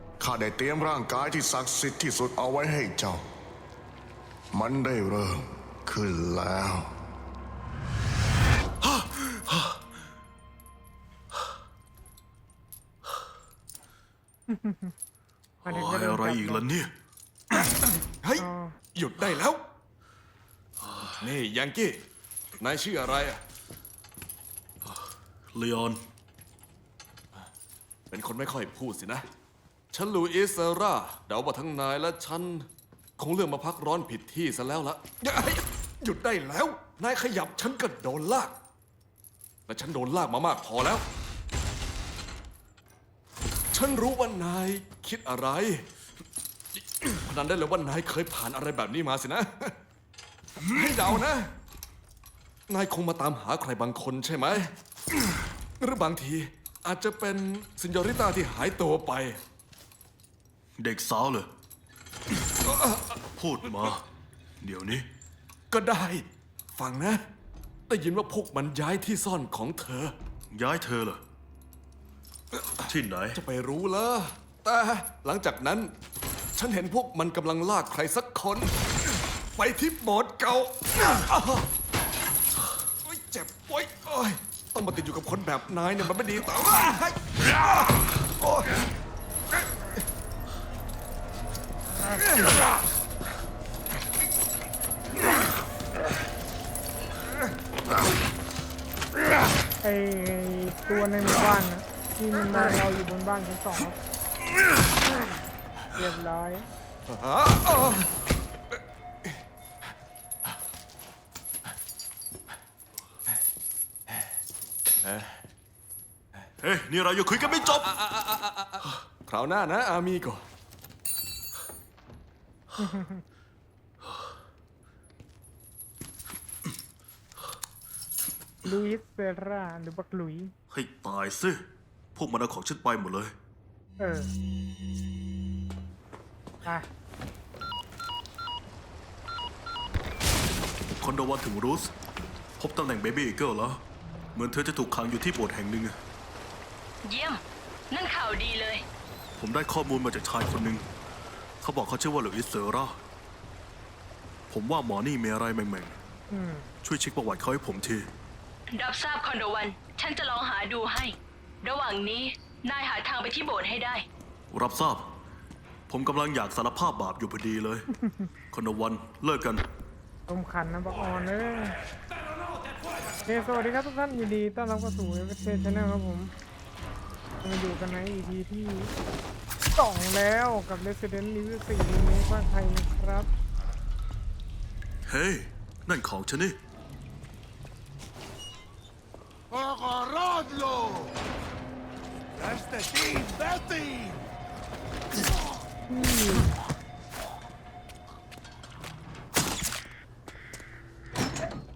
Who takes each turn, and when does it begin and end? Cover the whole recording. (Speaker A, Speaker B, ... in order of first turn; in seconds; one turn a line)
Speaker A: 0.2-3.2
Speaker A: 4.5-6.9
Speaker B: 8.8-9.8
Speaker C: 14.5-14.9
Speaker B: 15.7-16.9
Speaker C: 15.7-16.6
Speaker D: 18.2-19.7
Speaker C: 18.4-18.8
Speaker D: 21.2-22.1
Speaker D: 22.6-23.4
Speaker B: 25.5-26.0
Speaker D: 28.1-29.3
Speaker D: 29.9-38.6
Speaker D: 39.7-41.0
Speaker D: 43.7-45.9
Speaker D: 46.8-49.8
Speaker D: 50.6-51.5
Speaker D: 52.7-54.7
Speaker D: 55.8-59.4
Speaker B: 60.8-61.5
Speaker D: 62.6-63.2
Speaker B: 63.4-64.0
Speaker B: 64.6-65.1
Speaker D: 65.7-67.3
Speaker D: 67.9-70.2
Speaker B: 70.5-71.2
Speaker D: 72.5-75.9
Speaker B: 72.9-73.4
Speaker D: 76.6-78.8
Speaker D: 79.6-81.7
Speaker D: 83.0-88.8
Speaker D: 89.6-90.0
Speaker C: 92.0-92.6
Speaker C: 99.8-104.0
Speaker C: 105.9-106.7
Speaker D: 107.1-108.2
Speaker D: 108.7-109.4
Speaker D: 115.0-115.4
Speaker B: 116.6-117.9
Speaker D: 117.6-120.5
Speaker C: 122.8-123.2
Speaker C: 128.7-130.5
Speaker B: 130.7-131.6
Speaker B: 132.2-133.3
Speaker C: 134.0-134.3
Speaker B: 141.0-141.9
Speaker B: 142.6-143.8
Speaker B: 144.3-145.9
Speaker E: 147.1-148.8
Speaker B: 149.4-150.8
Speaker B: 151.6-153.0
Speaker B: 154.5-155.9
Speaker C: 156.3-156.7
Speaker B: 156.8-158.1
Speaker E: 158.7-164.1
Speaker B: 164.5-165.1
Speaker B: 165.9-167.9
Speaker C: 168.0-168.3
Speaker B: 168.5-169.6
Speaker C: 170.3-171.8
Speaker C: 173.2-176.3
Speaker C: 177.4-178.9
Speaker C: 179.8-183.3
Speaker B: 185.1-186.6
Speaker F: 189.7-190.7
Speaker F: 192.4-194.2
Speaker C: 195.9-196.6